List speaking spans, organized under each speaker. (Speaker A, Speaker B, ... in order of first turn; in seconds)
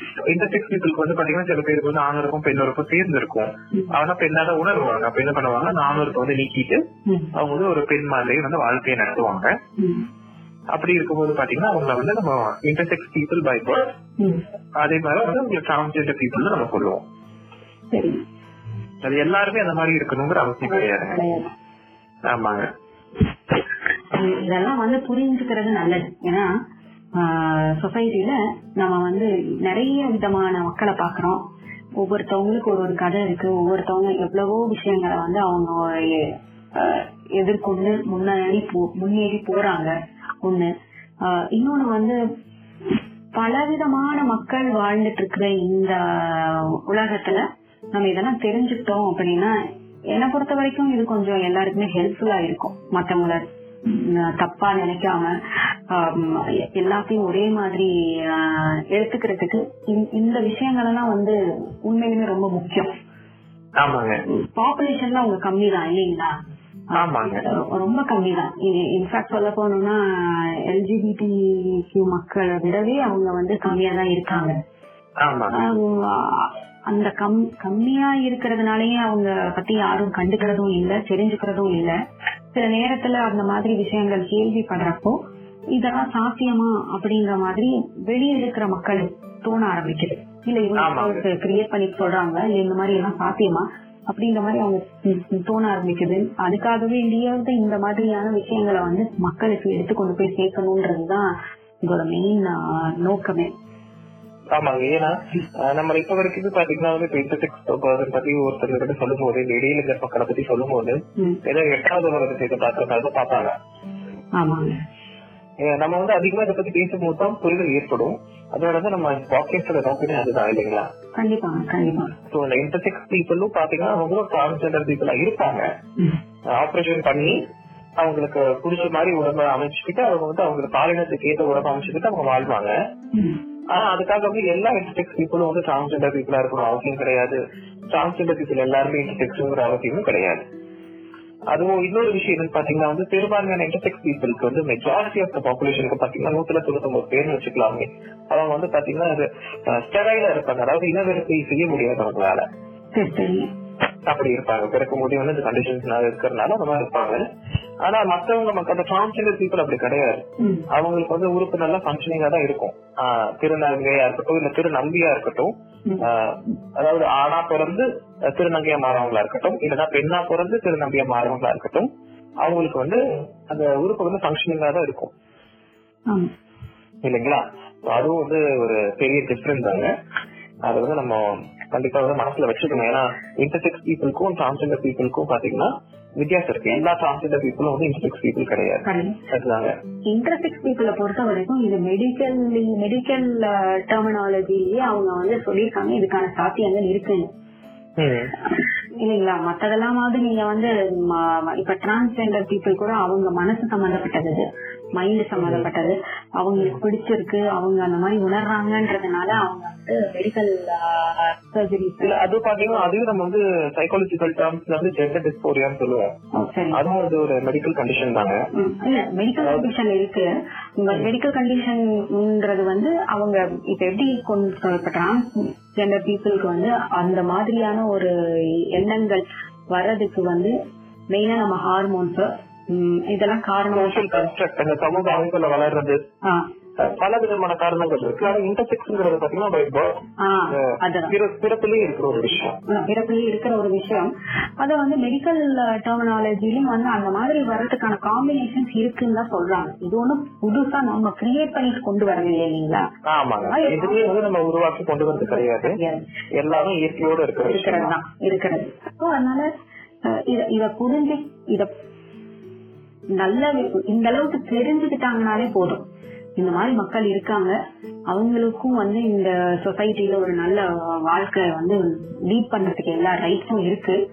Speaker A: 0.3-6.8, 7.3-9.5, 10.7-13.9, 14.8-17.0, 19.0-21.2, 22.3-22.7, 63.8-64.2, 67.0-67.4, 75.2-75.5, 90.8-91.2, 104.5-113.5, 115.6-120.9, 122.3-125.7, 126.5-127.4, 128.0-132.7, 133.7-137.4, 137.9-140.4, 141.5-152.4, 154.1-157.2, 157.8-171.9, 172.4-175.1, 177.0-179.9, 180.7-189.7, 198.0-198.3, 205.4-205.7, 212.0-216.1, 216.7-218.4, 219.4-219.6, 233.7-236.0, 236.8-242.6, 253.0-255.7, 256.4-257.9
Speaker B: 7.0-7.3, 9.8-10.1, 14.2-14.4, 17.9-18.2, 20.6-21.5, 24.1-26.5, 27.1-31.4, 32.0-40.7, 41.2-42.2, 43.4-49.5, 50.1-55.3, 55.9-62.9, 64.3-66.3, 66.9-74.6, 75.5-81.9, 82.5-85.2, 85.7-101.3, 101.8-103.5, 114.3-114.8, 121.2-122.1, 133.1-133.4, 152.9-153.5, 160.4-160.7, 188.8-189.2, 190.1-197.3, 199.0-212.1, 216.3-216.8, 218.5-230.5, 231.1-234.2, 240.2-241.1, 242.7-254.0, 255.3-256.0, 257.4-259.5, 260.0-261.7, 263.1-265.9, 266.4-267.6, 268.1-274.0